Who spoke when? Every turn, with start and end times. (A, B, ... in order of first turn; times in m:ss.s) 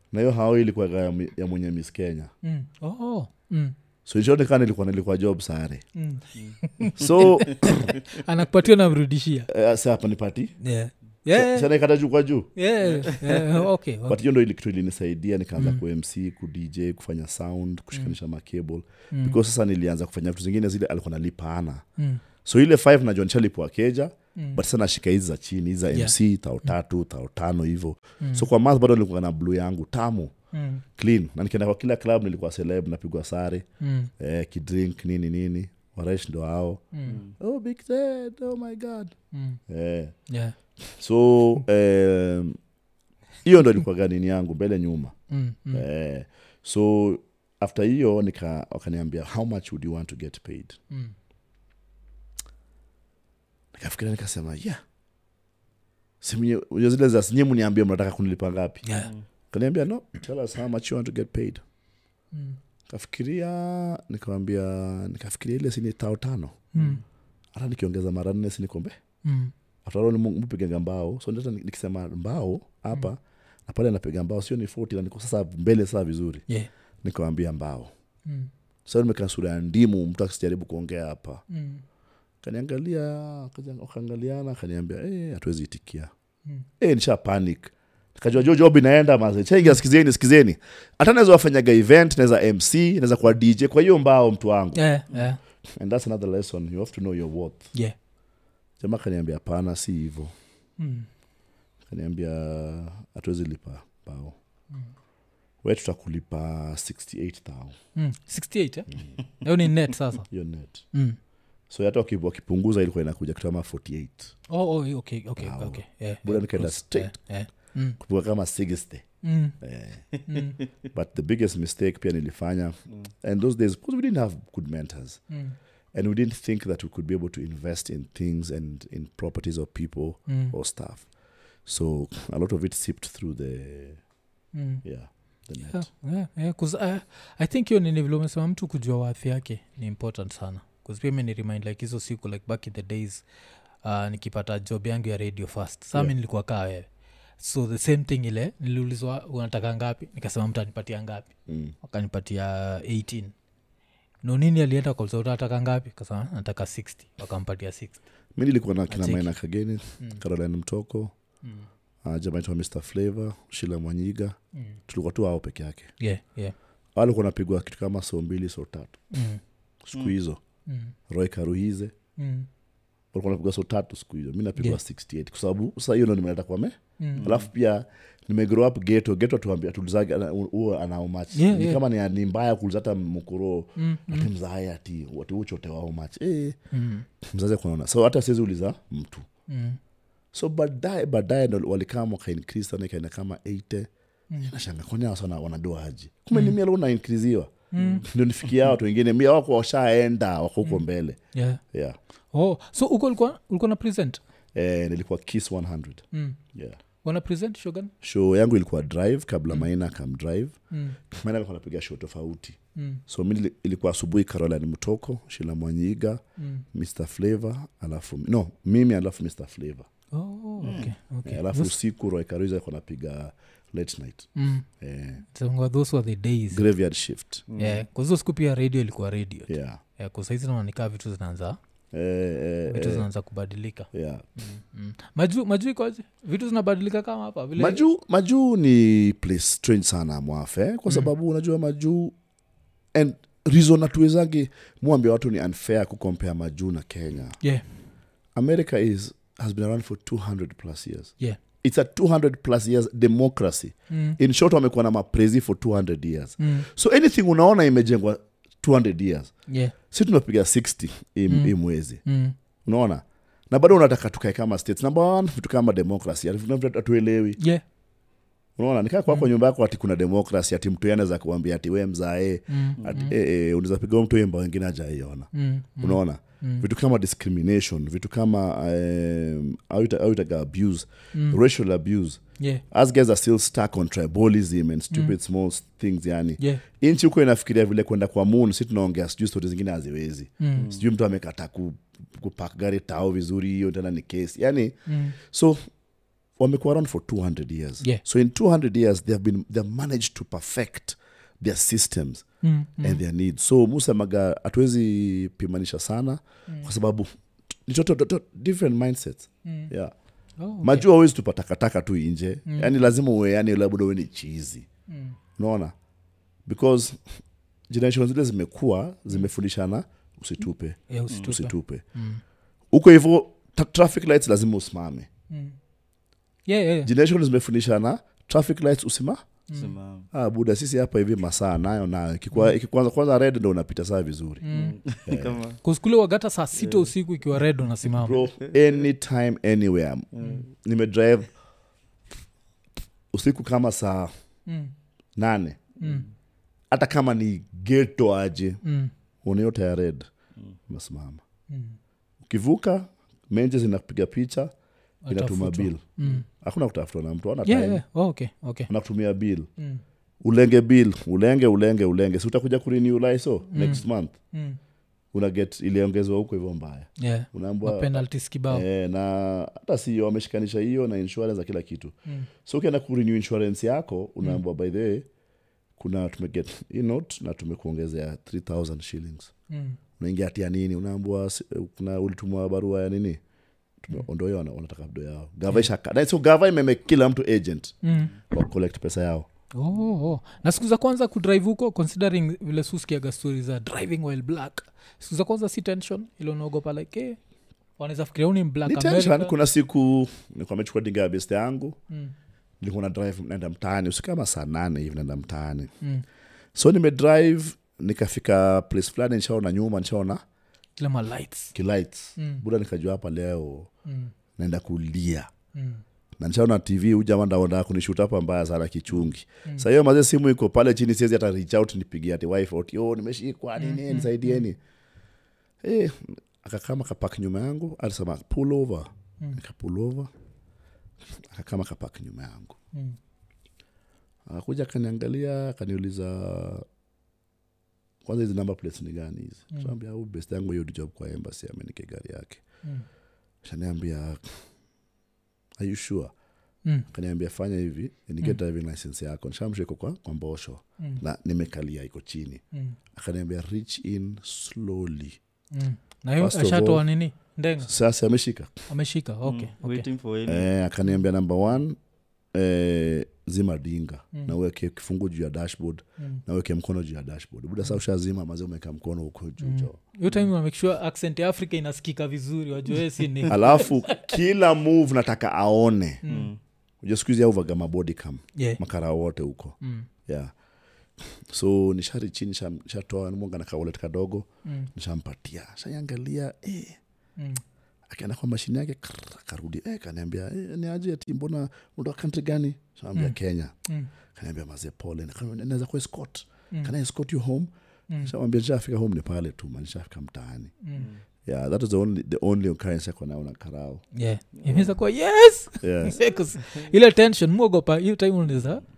0:00.1-0:02.3 A
0:02.4-0:03.7 B
0:04.0-0:05.8 A
0:05.9-0:09.5 B
0:06.9-0:07.9 A
0:09.5-0:10.5 A
0:10.6-0:11.7 B
0:11.3-0:12.5 A
0:12.6-0:14.2 B
0:12.8-0:13.7 C
0:14.1-0:21.8 A
0:15.6-0:15.8 B
0:19.1-0:19.4 B
0:22.0-0:22.2 B
0:22.4-0:30.3 A
0:24.4-0:24.6 B
0:28.2-0:28.5 B
0:30.5-0:30.8 B
0:31.0-0:33.6 A
0:33.8-0:34.1 B
0:34.2-0:36.8 A
0:36.9-0:37.2 B
0:37.0-0:37.4 C
0:37.4-0:39.1 A
0:39.3-0:39.6 B
0:39.7-0:40.1 A
0:40.3-0:40.5 B
0:41.0-0:42.6 A
0:43.4-0:45.1 A
0:45.3-0:45.8 B
0:45.7-0:50.8 A
0:53.7-0:54.8 A
0:56.2-0:58.8 A
0:58.8-0:59.1 B
0:59.0-0:59.2 C
0:59.5-1:01.6 A
1:02.3-1:02.6 B
1:02.9-1:06.7 A
1:06.7-1:07.0 B
1:06.8-1:07.0 C
1:07.5-1:09.0 A
1:09.2-1:09.5 B
1:09.8-1:16.4 A
1:17.0-1:17.9 A
1:18.2-1:18.5 B
1:18.8-1:21.4 A
1:21.5-1:21.8 B
1:22.4-1:26.1 A
1:26.8-1:34.8 A
1:34.8-1:35.4 B
1:35.8-1:37.7 A
1:38.8-1:40.3 A
1:40.8-1:41.1 B
1:41.9-1:44.4 A
1:45.6-1:47.8 A
1:47.9-1:48.9 B
1:49.4-1:50.3 B
1:50.3-1:50.8 A
1:51.7-1:54.3 A
1:54.5-1:58.0 B
1:55.4-1:57.1 A
1:58.0-1:59.0 A
1:59.2-1:59.6 B
1:59.6-2:00.0 A
2:00.1-2:00.7 C
2:00.3-2:00.6 B
2:00.9-2:05.2 A
2:05.3-2:05.6 B
2:05.9-2:11.1 A
2:10.3-2:10.5 B
2:11.6-2:14.0 A
2:14.5-2:14.8 B
2:14.8-2:15.8 A
2:15.6-2:23.2 B
2:23.8-2:26.9 B
2:27.4-2:33.3 B
2:31.5-2:31.7 A
2:34.2-2:38.0 B
2:38.4-2:41.1 A
2:38.9-2:39.3 B
2:42.0-2:44.4 A
2:44.9-2:45.9 A
2:46.0-2:46.5 B
2:47.0-2:49.0 A
2:49.1-2:49.4 B
2:49.8-2:50.4 A
2:50.6-2:50.9 B
2:51.1-2:51.9 A
2:52.2-2:52.5 B
2:53.1-3:06.6 A
2:57.0-2:57.3 B
2:57.2-2:57.5 C
3:01.3-3:01.8 B
3:03.8-3:04.3 B
3:06.7-3:07.0 B
3:07.2-3:09.2 A
3:09.5-3:09.8 B
3:10.3-3:21.2 A
3:16.3-3:16.6 B
3:17.7-3:18.0 B
3:17.7-3:18.0 C
3:21.3-3:21.6 B
3:22.3-3:24.2 B
3:24.5-3:26.8 A
3:26.1-3:26.4 B
3:27.0-3:27.9 B
3:28.0-3:30.5 A
3:30.7-3:31.0 B
3:31.1-3:36.2 A
3:32.8-3:33.0 B
3:36.4-3:36.6 B
3:36.7-3:39.9 A
3:40.1-3:41.7 B
3:40.6-3:40.9 C
3:40.7-3:45.2 A
3:44.4-3:44.6 B
3:45.2-3:46.6 B
3:46.5-3:47.5 A
3:47.5-3:47.8 C
3:47.6-3:51.6 B
3:49.5-3:49.8 A
3:51.9-3:53.0 A
3:52.7-3:57.8 B
3:53.9-3:54.3 A
3:57.6-4:02.1 A
4:02.9-4:07.4 A
4:08.3-4:19.3 A
4:13.9-4:14.2 B
4:16.4-4:16.7 B
4:19.5-4:19.7 B
4:19.9-4:22.0 A
4:21.3-4:21.5 B
4:22.0-4:22.3 B
4:22.6-4:27.4 A
4:28.6-4:55.6 A
4:32.5-4:33.1 B
4:35.3-4:36.6 B
4:41.1-4:41.4 B
4:50.4-4:50.7 B
4:50.6-4:50.8 C
4:54.9-4:55.2 B
4:56.4-5:02.2 A
5:02.4-5:03.0 B
5:02.8-5:07.1 A
5:07.7-5:09.9 A
5:09.4-5:09.7 B
5:10.4-5:10.9 B
5:10.6-5:14.7 A
5:12.5-5:12.8 B
5:14.9-5:15.2 B
5:15.4-5:15.7 A
5:16.4-5:17.0 A
5:17.7-5:21.8 A
5:20.9-5:22.2 B
5:21.1-5:21.4 C
5:22.7-5:25.1 A
5:25.3-5:25.6 B
5:26.5-5:26.9 B
5:26.8-5:29.2 A
5:29.5-5:29.8 B
5:29.5-5:30.1 C
5:30.1-5:34.4 A
5:34.4-5:34.8 B
5:34.5-5:35.6 C
5:35.0-5:35.4 A
5:35.6-5:38.2 B
5:36.6-5:36.9 C
5:37.9-5:41.3 A
5:40.1-5:40.4 C
5:43.1-5:44.1 A
5:44.5-5:44.7 B
5:45.2-5:45.6 A
5:45.8-5:46.0 B
5:45.8-5:46.0 C
5:46.7-5:48.6 A
5:48.6-5:48.9 B
5:49.2-5:50.1 A
5:50.7-5:51.2 A
5:51.5-5:51.8 B
5:52.2-5:54.5 A
5:55.0-5:56.2 B
5:55.1-5:57.8 A
5:57.4-5:58.7 B
5:58.7-5:59.5 A
5:59.6-5:59.8 B
6:00.2-6:04.1 A
6:03.5-6:04.6 B
6:05.1-6:11.9 A
6:07.0-6:08.6 B
6:12.4-6:15.1 A
6:15.8-6:19.3 A
6:19.5-6:19.8 B
6:20.0-6:23.2 A
6:23.8-6:27.8 A
6:27.8-6:28.1 B
6:28.3-6:29.2 A
6:29.5-6:37.2 B
6:37.8-6:39.3 B
6:38.6-6:41.8 A
6:42.6-6:45.7 A
6:46.5-6:50.2 A
6:50.8-6:51.5 B
6:51.5-6:53.7 A
6:52.2-6:52.4 B
6:53.9-6:54.1 B
6:54.4-6:55.3 A
6:55.5-6:55.8 B
6:56.2-7:04.6 A
7:03.6-7:04.4 B
7:05.6-7:10.1 A
7:11.3-7:12.6 A
7:14.3-7:16.6 A
7:18.0-7:22.4 A
7:23.4-7:24.2 A
7:25.6-7:26.1 A
7:26.9-7:32.4 A
7:32.9-7:35.2 A
7:35.5-7:37.7 B
7:36.2-7:36.8 A
7:37.6-7:38.5 A
7:38.7-7:39.8 B
7:39.2-7:40.5 C
7:40.2-7:41.8 A
7:42.3-7:49.8 A
7:49.4-7:54.2 B
7:53.3-7:56.0 A
7:56.0-7:56.3 B
7:56.1-7:56.4 C
7:56.8-7:59.6 A
7:59.6-7:59.9 B
8:00.1-8:00.3 A
8:01.3-8:06.8 A
8:04.4-8:04.7 B
8:07.2-8:07.4 B
8:07.9-8:13.5 A
8:12.9-8:13.9 B
8:14.1-8:17.5 A
8:18.0-8:20.5 A
8:20.6-8:20.9 B
8:20.8-8:21.0 C
8:21.2-8:23.8 A
8:23.9-8:28.6 B
8:24.4-8:24.7 C
8:25.6-8:26.0 A
8:26.4-8:26.7 C